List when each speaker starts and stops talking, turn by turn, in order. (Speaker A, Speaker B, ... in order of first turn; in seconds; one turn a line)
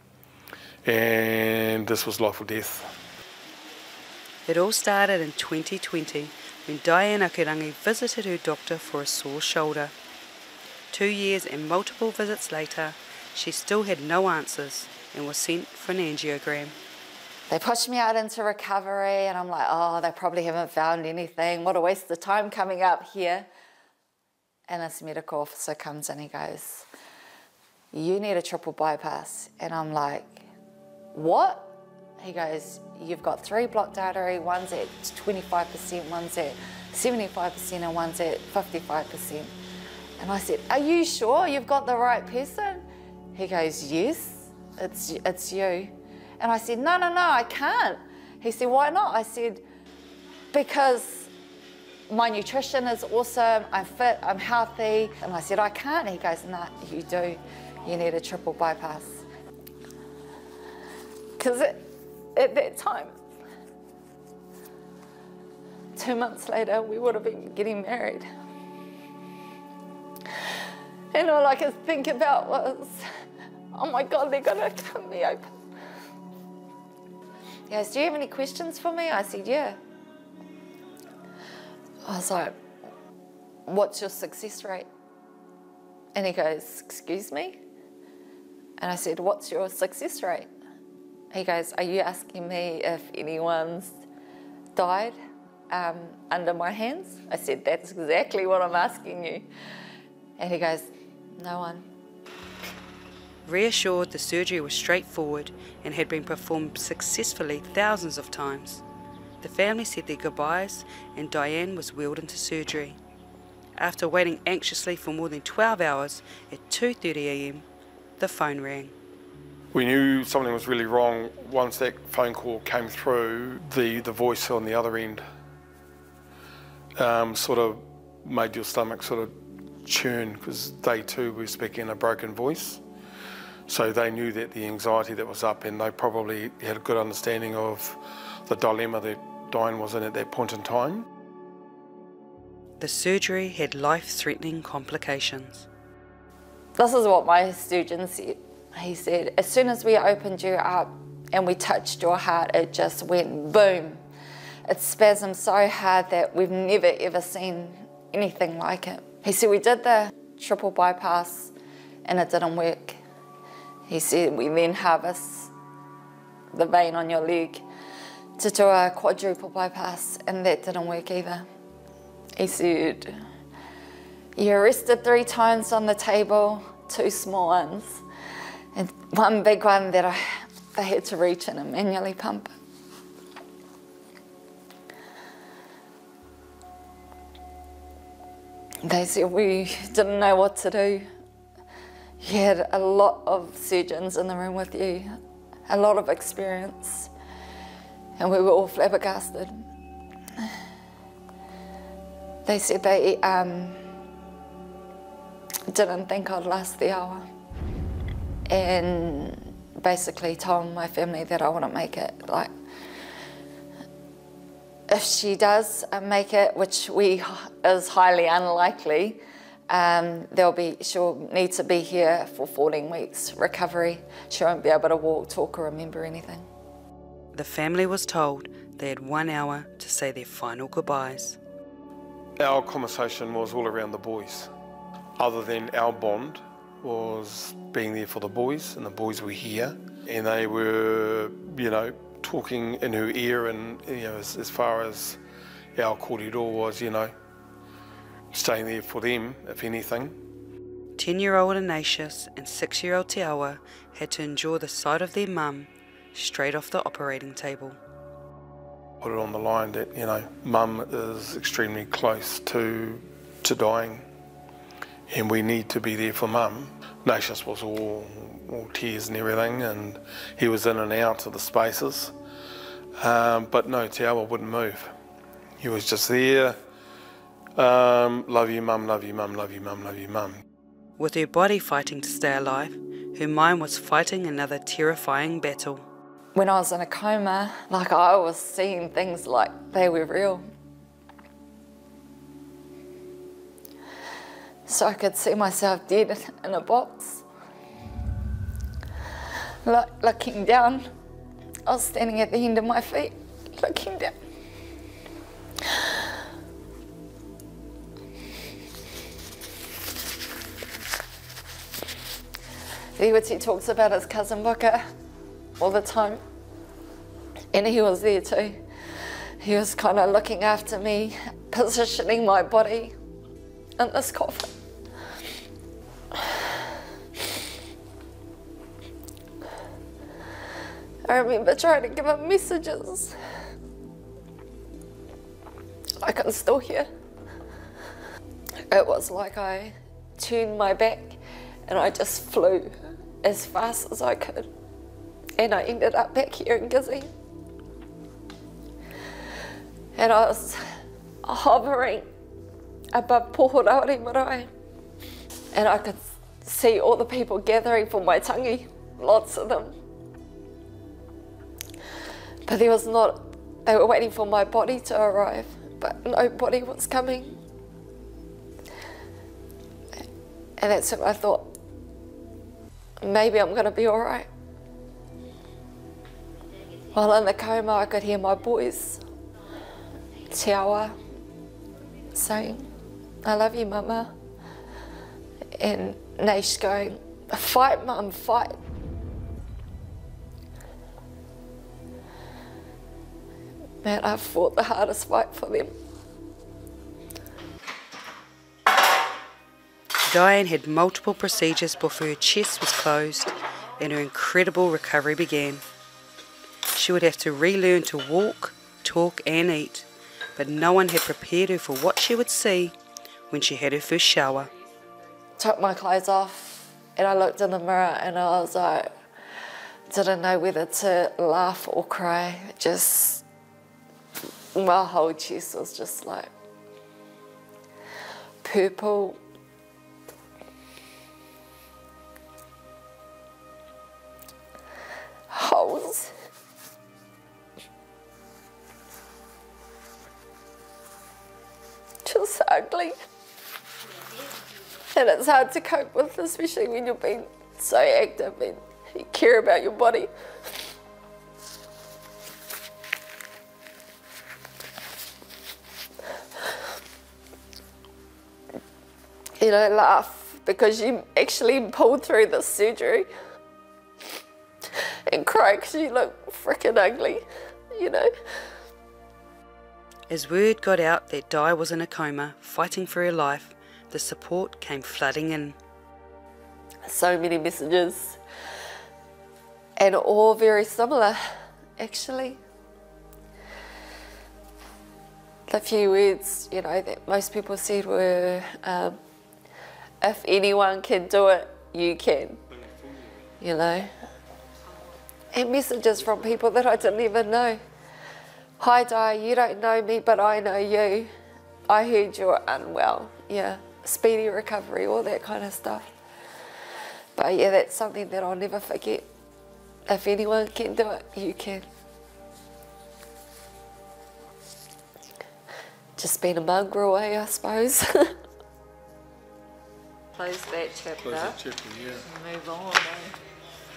Speaker A: 0.8-2.9
Speaker B: 4.5-9.9
Speaker B: 10.9-16.8
Speaker C: 17.5-23.5
Speaker C: 24.7-26.9
Speaker C: 27.9-30.4
Speaker C: 31.1-39.5
Speaker C: 40.2-49.6
Speaker C: 50.5-51.3
Speaker C: 52.1-59.2
Speaker C: 61.4-61.8
Speaker C: 62.3-63.1
Speaker C: 66.0-68.2
Speaker C: 71.1-73.0
Speaker C: 73.7-75.5
Speaker C: 77.7-79.8
Speaker C: 82.0-82.5
Speaker C: 83.7-84.9
Speaker C: 86.1-87.6
Speaker C: 88.8-90.5
Speaker C: 91.3-94.0
Speaker C: 94.7-95.2
Speaker C: 95.7-99.5
Speaker C: 100.4-101.9
Speaker B: 103.5-108.8
Speaker B: 109.4-113.0
Speaker B: 113.8-117.7
Speaker B: 118.2-118.9
Speaker A: 119.7-125.2
Speaker A: 127.0-129.3
Speaker A: 129.8-132.8
Speaker A: 133.7-141.1
Speaker B: 142.8-145.7
Speaker C: 146.8-154.0
Speaker C: 154.7-161.5
Speaker C: 162.0-163.0
Speaker C: 163.9-165.5
Speaker C: 166.5-167.6
Speaker C: 168.4-171.4
Speaker C: 172.4-173.1
Speaker C: 174.3-178.0
Speaker C: 178.8-182.5
Speaker C: 188.8-191.1
Speaker C: 192.2-195.1
Speaker C: 195.7-197.1
Speaker C: 198.2-199.6
Speaker C: 202.4-203.8
Speaker C: 205.7-207.2
Speaker C: 208.5-212.5
Speaker C: 214.9-226.4
Speaker B: 227.3-231.4
Speaker A: 232.4-234.5
Speaker A: 235.2-245.2
Speaker A: 245.8-247.1
Speaker A: 248.3-250.1
Speaker B: 251.0-257.8
Speaker A: 259.0-264.1
Speaker A: 265.1-272.1
Speaker A: 273.0-274.9
Speaker A: 275.6-276.6
Speaker A: 277.6-280.4
Speaker B: 281.0-285.8
Speaker C: 286.4-290.4
Speaker C: 294.7-297.2
Speaker C: 299.6-300.9
Speaker C: 301.7-304.2
Speaker C: 313.0-314.8
Speaker C: 315.6-316.2
Speaker C: 317.5-318.6
Speaker C: 319.4-322.9
Speaker C: 323.8-324.5
Speaker C: 331.1-333.1
Speaker C: 336.0-336.9
Speaker C: 338.7-344.5
Speaker C: 345.4-347.1
Speaker C: 349.9-350.6
Speaker C: 351.2-352.1
Speaker C: 352.9-354.5
Speaker C: 355.5-359.8
Speaker C: 362.5-367.4
Speaker C: 370.6-371.5
Speaker C: 373.0-374.3
Speaker C: 376.9-379.0
Speaker C: 380.3-381.0
Speaker C: 382.1-382.7
Speaker C: 383.2-384.1
Speaker C: 385.6-388.6
Speaker C: 393.8-395.7
Speaker B: 400.1-405.6
Speaker B: 406.7-412.7
Speaker B: 413.3-414.5
Speaker C: 415.4-418.9
Speaker C: 419.9-423.2
Speaker C: 424.6-426.3
Speaker C: 428.4-429.2
Speaker C: 435.3-436.1
Speaker C: 442.1-442.9
Speaker C: 444.9-450.1
Speaker C: 459.4-463.1
Speaker C: 465.1-468.1
Speaker B: 470.1-475.6
Speaker C: 476.9-478.2
Speaker C: 479.8-481.2
Speaker C: 481.8-482.4
Speaker C: 485.5-489.0
Speaker C: 490.0-492.4
Speaker C: 493.4-493.9
Speaker C: 495.3-497.6
Speaker C: 498.6-501.1
Speaker C: 501.7-505.9
Speaker C: 507.2-509.1
Speaker C: 509.9-511.6
Speaker C: 516.0-518.2
Speaker C: 520.1-521.4
Speaker A: 521.0-522.1
Speaker C: 522.1-523.1